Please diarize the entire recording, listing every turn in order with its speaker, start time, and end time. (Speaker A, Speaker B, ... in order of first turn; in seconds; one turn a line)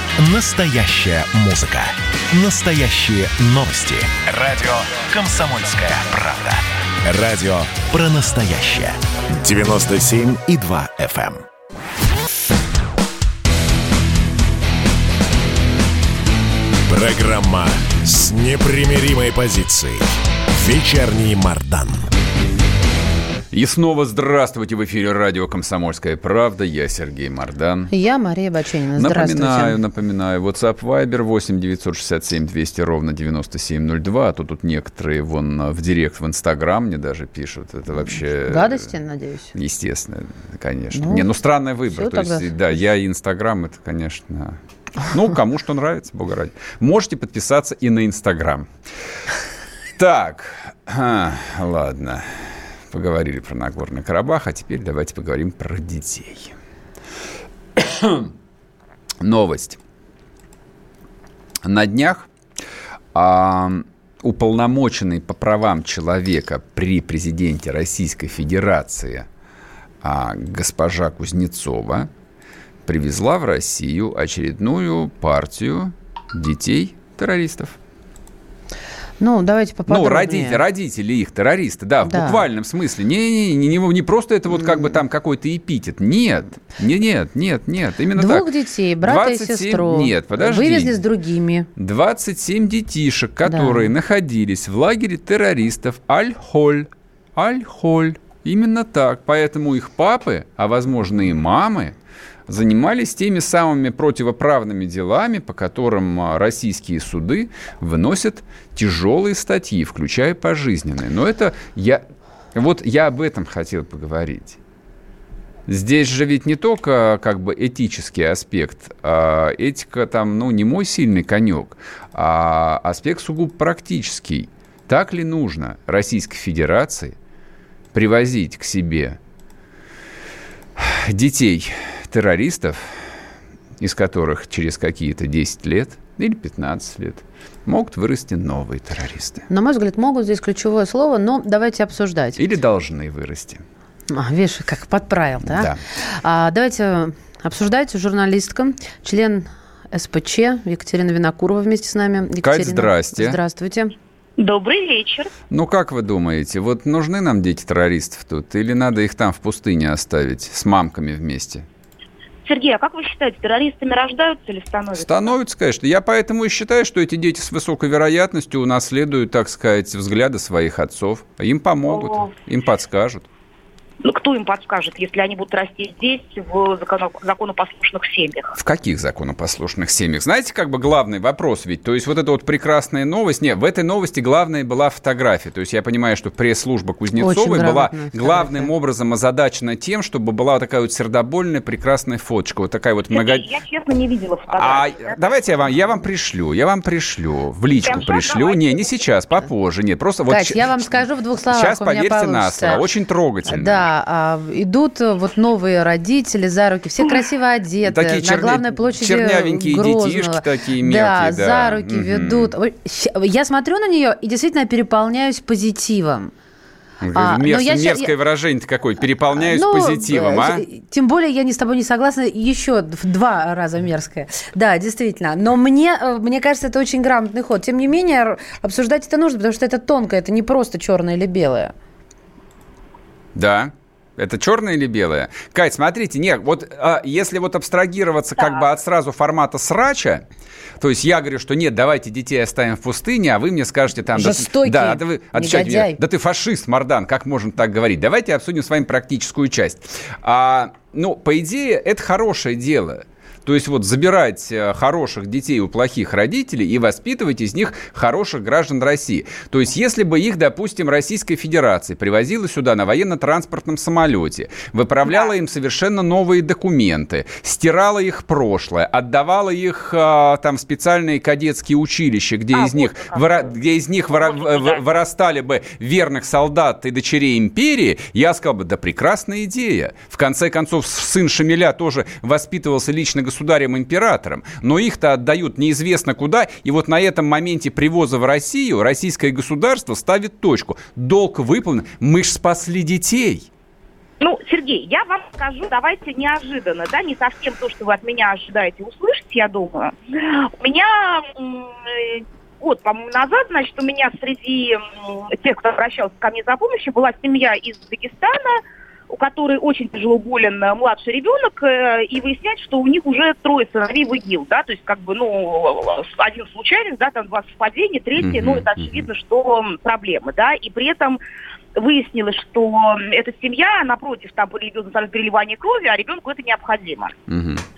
Speaker A: 0.2-11.4
Speaker A: 16.9-22.0
Speaker B: 23.5-27.9
Speaker C: 27.9-29.8
Speaker B: 29.0-38.9
Speaker C: 38.5-39.5
Speaker B: 39.5-48.7
Speaker C: 40.9-41.3
Speaker C: 41.9-42.5
Speaker B: 50.0-52.3
Speaker B: 52.9-56.5
Speaker B: 57.8-58.3
Speaker B: 59.2-59.8
Speaker B: 61.6-62.3
Speaker B: 63.1-69.3
Speaker B: 70.0-72.1
Speaker B: 72.8-77.8
Speaker C: 79.2-80.6
Speaker B: 79.9-88.5
Speaker C: 82.1-82.5
Speaker C: 88.1-91.7
Speaker B: 89.0-91.0
Speaker B: 91.8-102.0
Speaker C: 93.5-93.9
Speaker B: 102.5-114.6
Speaker B: 115.7-127.2
Speaker B: 127.9-129.2
Speaker B: 130.8-133.0
Speaker B: 133.8-139.4
Speaker C: 139.5-142.4
Speaker B: 142.3-143.6
Speaker C: 144.1-153.9
Speaker B: 145.5-145.8
Speaker B: 152.4-153.4
Speaker D: 154.4-155.3
Speaker B: 155.5-161.7
Speaker D: 162.4-165.3
Speaker B: 164.9-173.3
Speaker D: 171.9-172.3
Speaker D: 174.0-178.5
Speaker B: 178.6-193.4
Speaker C: 187.2-188.7
Speaker D: 193.1-195.2
Speaker B: 194.5-203.9
Speaker D: 197.8-198.9
Speaker C: 200.3-202.8
Speaker C: 203.4-216.3
Speaker B: 207.8-212.5
Speaker B: 217.0-220.7
Speaker C: 217.2-218.1
Speaker C: 219.5-231.7
Speaker B: 233.3-240.2
Speaker B: 240.8-293.5
Speaker C: 244.2-246.0
Speaker D: 265.1-265.3
Speaker D: 272.5-273.5
Speaker D: 274.2-274.8
Speaker D: 294.2-321.2
Speaker B: 318.2-319.1
Speaker D: 321.8-327.1
Speaker B: 327.3-327.6